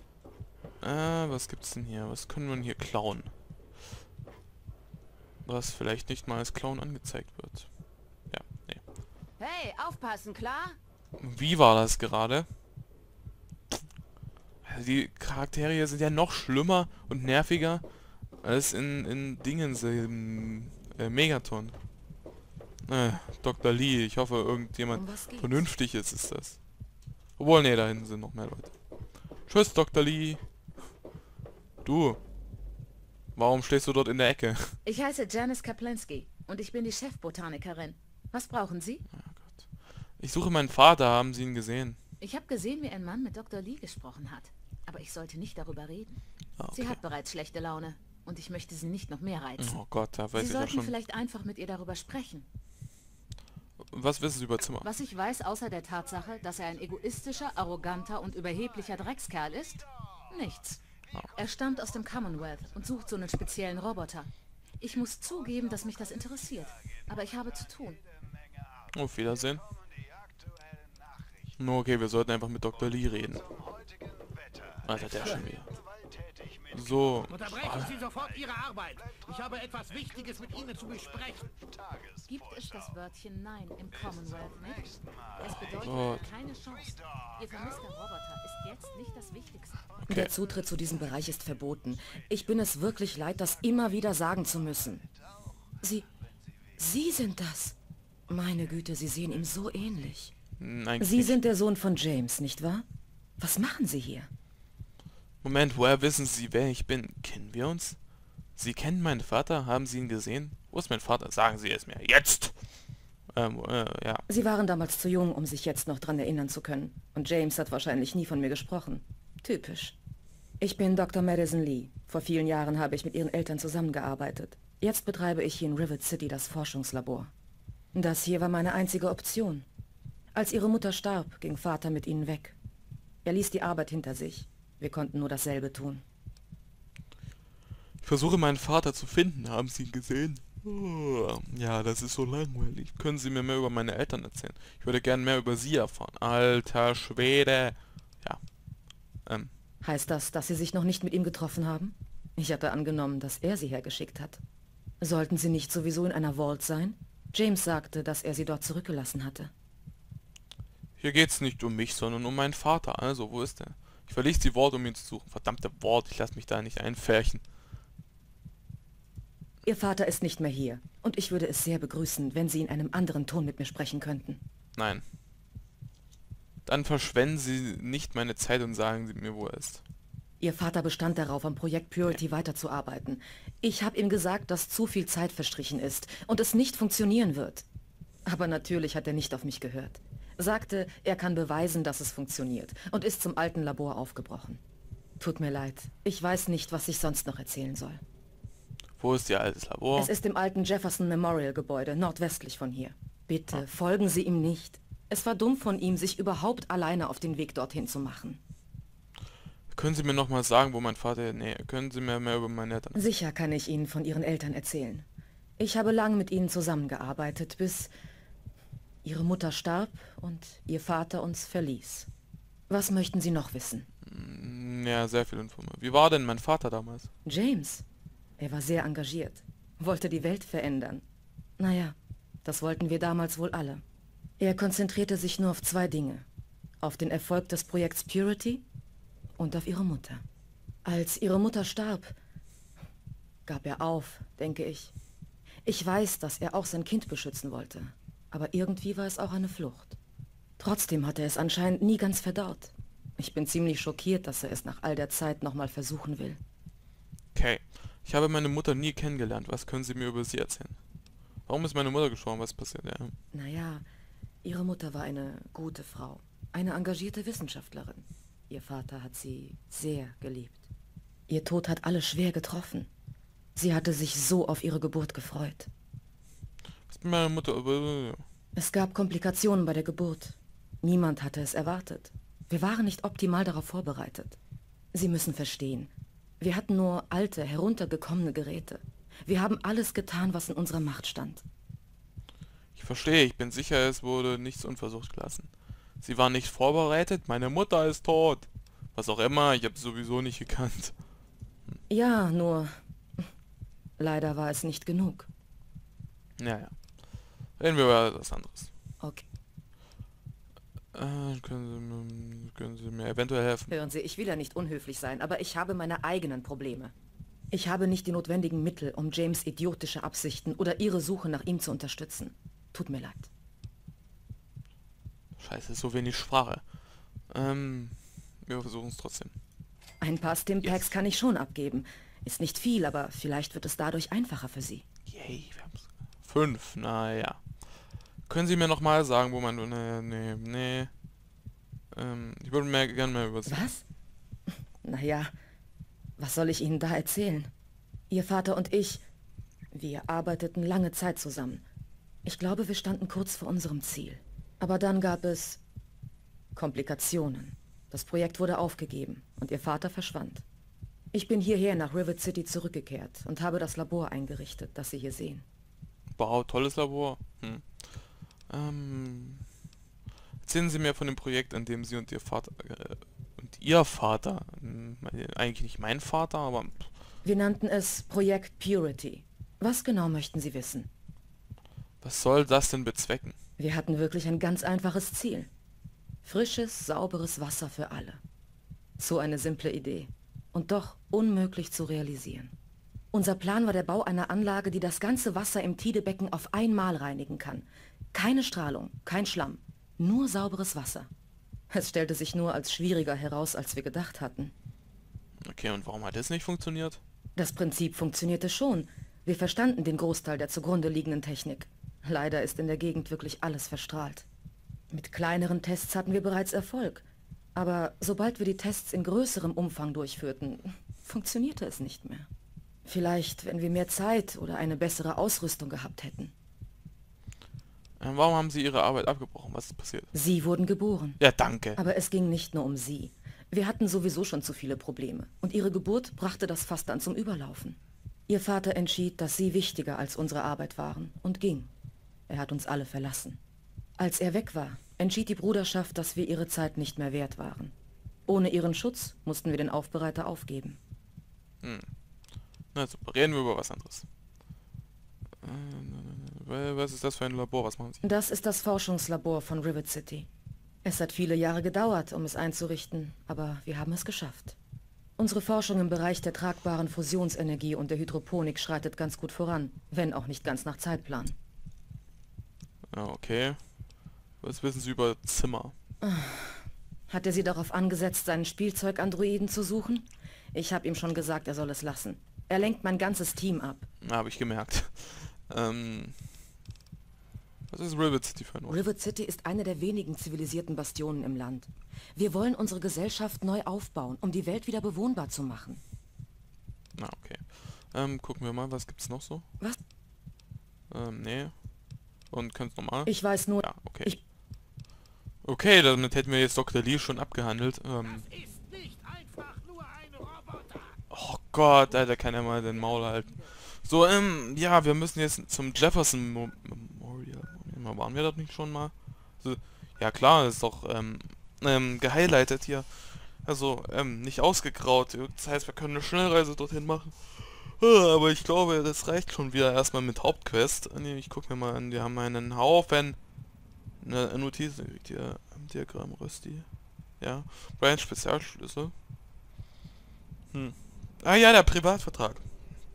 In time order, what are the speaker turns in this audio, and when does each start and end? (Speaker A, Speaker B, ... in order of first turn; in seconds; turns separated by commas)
Speaker A: 0.8-3.3, Speaker A: 5.5-7.7, Speaker A: 8.3-8.8, Speaker B: 9.4-10.8, Speaker A: 11.2-12.5, Speaker A: 14.6-17.8, Speaker A: 18.4-21.8, Speaker A: 22.9-26.6, Speaker C: 24.9-25.7, Speaker A: 27.4-28.7, Speaker A: 29.5-30.4, Speaker A: 31.8-32.2, Speaker A: 33.4-34.8, Speaker B: 34.8-39.0, Speaker A: 39.1-42.0, Speaker B: 42.2-46.2, Speaker A: 46.6-47.0, Speaker B: 46.7-49.8, Speaker A: 49.6-50.9, Speaker B: 50.3-52.5, Speaker A: 53.9-54.9, Speaker B: 54.8-60.8, Speaker B: 61.3-68.0, Speaker A: 68.9-69.7, Speaker A: 71.6-73.5, Speaker A: 74.8-75.8, Speaker A: 76.7-78.0, Speaker D: 77.3-81.5, Speaker B: 82.3-89.8, Speaker A: 85.8-86.3, Speaker C: 90.1-95.0, Speaker C: 95.8-96.1, Speaker C: 96.8-97.8, Speaker C: 98.3-100.3, Speaker A: 100.6-101.5, Speaker C: 101.0-102.9, Speaker C: 103.4-104.3, Speaker A: 105.4-108.0, Speaker A: 108.6-112.6, Speaker A: 113.3-114.2, Speaker C: 114.3-120.0, Speaker C: 120.6-127.3, Speaker C: 127.9-129.7, Speaker C: 130.3-132.6, Speaker C: 133.2-136.0, Speaker A: 138.0-148.4, Speaker A: 149.2-149.5, Speaker C: 149.8-154.4, Speaker C: 155.0-159.5, Speaker A: 161.0-167.4, Speaker C: 169.6-174.4, Speaker A: 174.8-175.0, Speaker A: 176.7-179.8, Speaker C: 180.4-187.7, Speaker C: 188.3-194.6, Speaker C: 195.2-198.0, Speaker A: 199.0-200.1, Speaker C: 200.0-208.4, Speaker A: 209.7-213.0, Speaker C: 212.9-215.1, Speaker C: 215.6-217.9, Speaker C: 219.0-222.1, Speaker C: 222.7-223.9, Speaker A: 224.1-227.1, Speaker C: 227.2-227.8, Speaker C: 228.4-231.1, Speaker C: 231.6-233.8, Speaker C: 234.4-236.2, Speaker C: 236.8-238.6, Speaker C: 239.4-240.2, Speaker C: 240.8-242.2, Speaker C: 243.5-244.9, Speaker C: 245.7-250.0, Speaker C: 250.6-256.4, Speaker A: 257.3-260.8, Speaker A: 261.5-263.1, Speaker C: 263.3-263.9, Speaker C: 264.4-270.7, Speaker C: 271.3-272.9, Speaker C: 273.6-275.7, Speaker A: 276.9-278.2, Speaker C: 278.6-284.4, Speaker C: 284.9-291.4, Speaker A: 292.8-301.0, Speaker C: 301.9-303.3, Speaker C: 304.0-305.3, Speaker A: 306.4-308.7, Speaker A: 310.9-313.7, Speaker C: 313.7-316.9, Speaker C: 317.5-323.3, Speaker A: 325.4-326.7, Speaker A: 327.3-329.4, Speaker C: 330.0-334.9, Speaker A: 330.6-330.9, Speaker A: 335.1-337.5, Speaker A: 338.3-340.9, Speaker A: 341.9-343.7, Speaker C: 343.5-343.9, Speaker C: 344.8-345.3, Speaker C: 346.2-347.5, Speaker C: 348.1-349.0, Speaker C: 349.7-351.6, Speaker C: 352.2-355.6, Speaker C: 356.6-360.4, Speaker C: 361.1-365.4, Speaker A: 366.1-369.5, Speaker A: 370.4-376.9, Speaker C: 377.2-380.9, Speaker A: 382.0-383.4, Speaker C: 383.6-385.5, Speaker C: 386.2-388.2, Speaker C: 389.0-392.5, Speaker C: 393.1-401.1, Speaker C: 401.7-404.5, Speaker A: 405.4-407.0, Speaker C: 407.4-414.3, Speaker C: 414.9-422.3, Speaker C: 422.9-426.3, Speaker A: 428.0-430.1, Speaker C: 430.1-431.2, Speaker A: 431.2-431.8, Speaker C: 431.8-441.7, Speaker C: 442.3-443.4, Speaker C: 444.0-447.7, Speaker C: 448.3-450.8, Speaker A: 451.6-451.9, Speaker A: 452.7-454.1, Speaker A: 455.4-458.0, Speaker C: 458.0-460.3, Speaker C: 460.8-464.6, Speaker C: 465.2-471.4, Speaker A: 472.9-475.8, Speaker C: 476.0-483.9, Speaker A: 484.0-486.4, Speaker A: 487.7-488.8, Speaker C: 488.7-495.8, Speaker A: 497.0-499.5, Speaker A: 500.9-501.7, Speaker A: 502.3-504.2, Speaker C: 503.1-504.2, Speaker A: 505.4-508.3, Speaker D: 508.0-511.0, Speaker A: 511.1-533.2, Speaker B: 512.7-513.1, Speaker A: 534.0-536.7, Speaker A: 537.2-538.9, Speaker A: 540.5-542.5